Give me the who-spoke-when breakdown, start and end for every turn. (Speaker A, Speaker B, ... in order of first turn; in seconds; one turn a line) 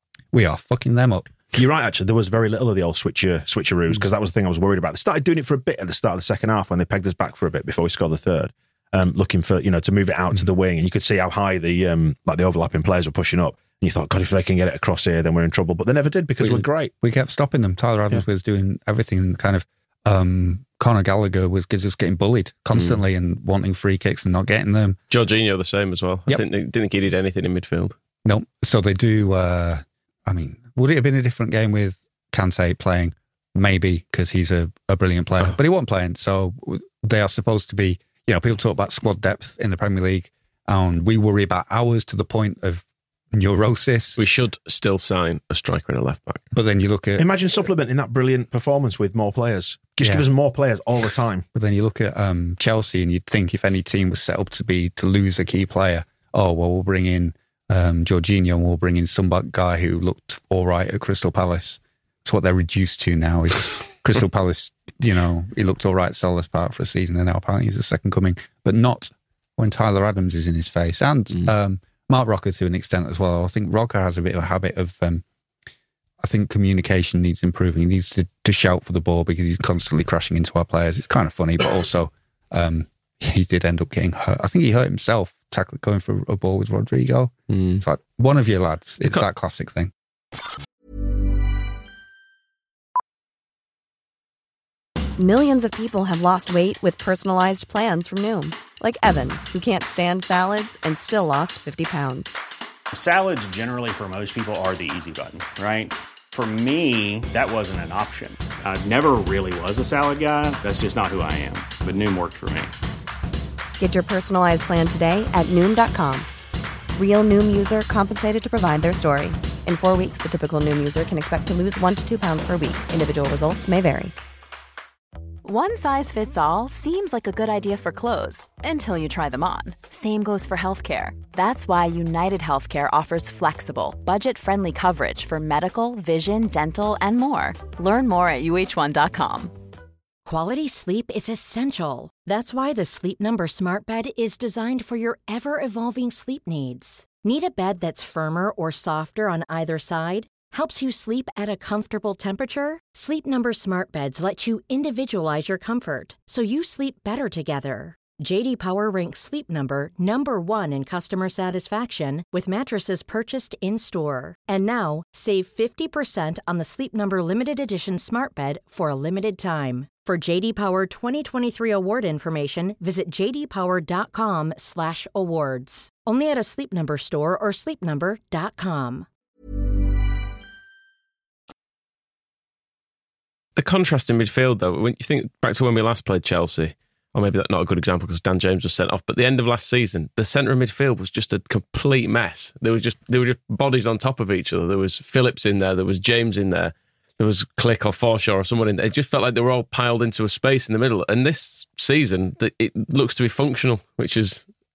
Speaker A: 0.3-1.3
Speaker B: 1.5-16.9
Speaker A: 16.4-25.0
Speaker C: 25.1-27.9
Speaker A: 28.2-44.2
Speaker C: 44.2-46.4
Speaker A: 46.5-47.3
Speaker B: 47.2-51.4
Speaker A: 50.0-50.3
Speaker A: 51.5-75.2
Speaker A: 76.2-89.9
Speaker C: 87.5-87.8
Speaker D: 95.2-102.4
Speaker E: 102.9-112.7
Speaker D: 113.8-116.3
Speaker D: 116.9-124.1
Speaker F: 125.4-139.5
Speaker G: 140.2-179.1
Speaker C: 183.6-204.4